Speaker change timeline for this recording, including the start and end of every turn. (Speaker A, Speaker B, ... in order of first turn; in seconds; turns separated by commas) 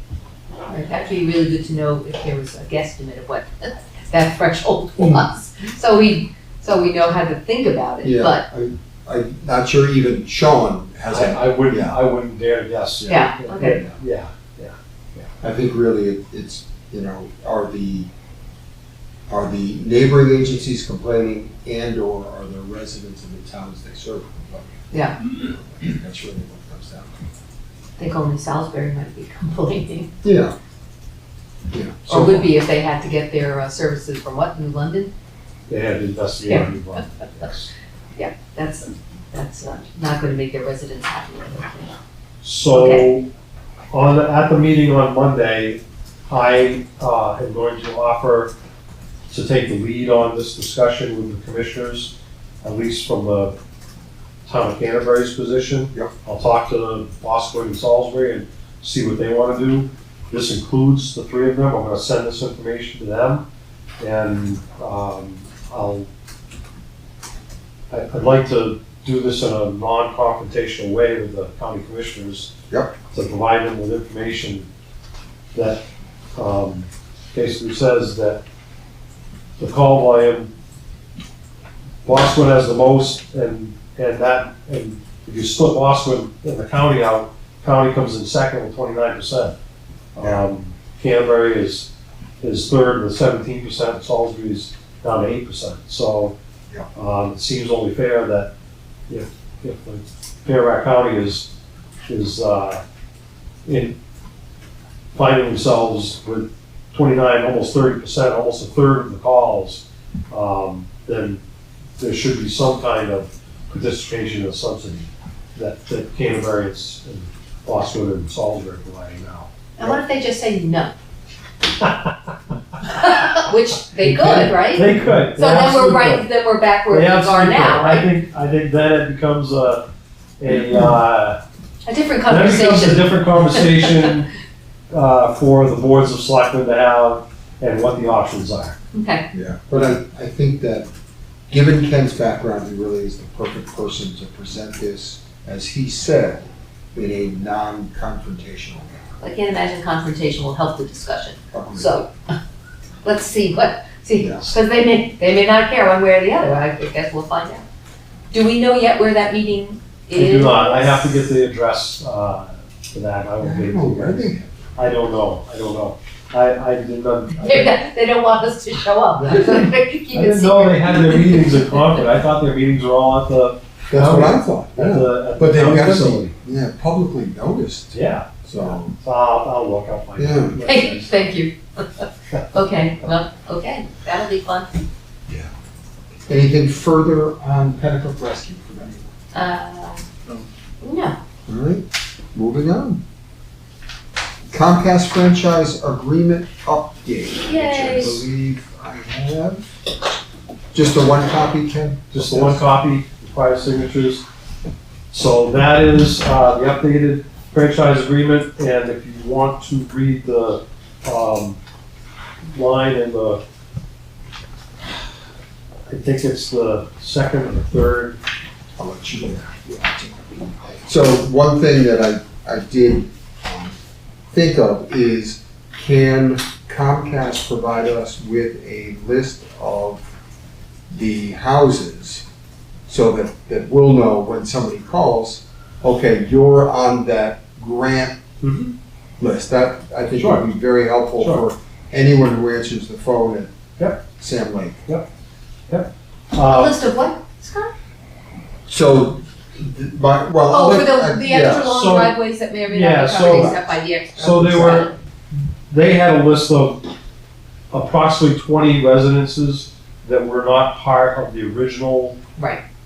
Speaker A: 0.7-8.4, Speaker B: 5.0-5.2, Speaker B: 8.0-12.0, Speaker C: 11.1-15.3, Speaker B: 13.0-13.9, Speaker A: 13.1-13.8, Speaker B: 15.4-18.1, Speaker B: 19.3-27.1, Speaker A: 24.9-25.2, Speaker A: 28.0-30.1, Speaker B: 30.2-30.5, Speaker B: 31.7-32.5, Speaker A: 32.1-35.1, Speaker C: 35.7-37.7, Speaker A: 38.1-41.9, Speaker C: 42.4-43.3, Speaker A: 42.7-43.1, Speaker C: 43.9-48.5, Speaker C: 49.3-53.5, Speaker C: 54.5-63.5, Speaker C: 64.0-66.1, Speaker C: 67.9-72.5, Speaker C: 73.1-74.7, Speaker C: 75.5-75.8, Speaker C: 76.3-78.4, Speaker C: 79.6-80.5, Speaker C: 82.0-89.5, Speaker C: 90.2-91.9, Speaker C: 92.4-96.3, Speaker C: 97.0-98.5, Speaker C: 99.1-101.5, Speaker C: 102.1-102.8, Speaker C: 103.6-104.0, Speaker C: 105.1-111.4, Speaker C: 112.0-120.0, Speaker A: 119.8-120.9, Speaker A: 122.8-128.1, Speaker C: 124.0-126.2, Speaker C: 126.9-129.8, Speaker C: 130.4-131.4, Speaker B: 130.5-130.9, Speaker A: 131.8-134.1, Speaker C: 132.3-134.3, Speaker C: 134.9-138.7, Speaker A: 138.9-139.2, Speaker B: 139.3-140.9, Speaker B: 141.5-149.1, Speaker A: 149.2-152.1, Speaker B: 151.5-151.9, Speaker A: 153.0-157.6, Speaker B: 154.2-154.5, Speaker A: 158.3-161.1, Speaker C: 160.1-167.7, Speaker B: 163.4-164.7, Speaker A: 167.3-172.0, Speaker B: 169.2-169.5, Speaker C: 170.1-176.3, Speaker B: 173.9-178.9, Speaker C: 177.9-181.2, Speaker B: 180.2-180.6, Speaker A: 180.6-184.8, Speaker B: 186.3-189.1, Speaker A: 189.3-190.1, Speaker A: 190.8-191.2, Speaker B: 191.5-193.0, Speaker B: 194.5-199.6, Speaker A: 197.4-198.2, Speaker B: 200.7-202.6, Speaker C: 202.1-204.2, Speaker C: 205.1-211.6, Speaker C: 212.5-213.4, Speaker C: 215.9-218.2, Speaker B: 218.8-223.8, Speaker B: 224.3-230.1, Speaker B: 230.9-232.2, Speaker B: 232.9-238.2, Speaker C: 238.4-238.7, Speaker B: 239.2-243.5, Speaker C: 240.2-240.4, Speaker C: 241.2-241.4, Speaker B: 244.2-244.8, Speaker C: 245.7-246.8, Speaker A: 246.4-247.7, Speaker B: 248.7-251.8, Speaker A: 250.5-254.9, Speaker C: 251.7-252.1, Speaker C: 252.7-253.5, Speaker B: 253.2-254.9, Speaker C: 254.2-254.9, Speaker C: 255.7-256.8, Speaker C: 257.7-262.2, Speaker A: 262.4-262.6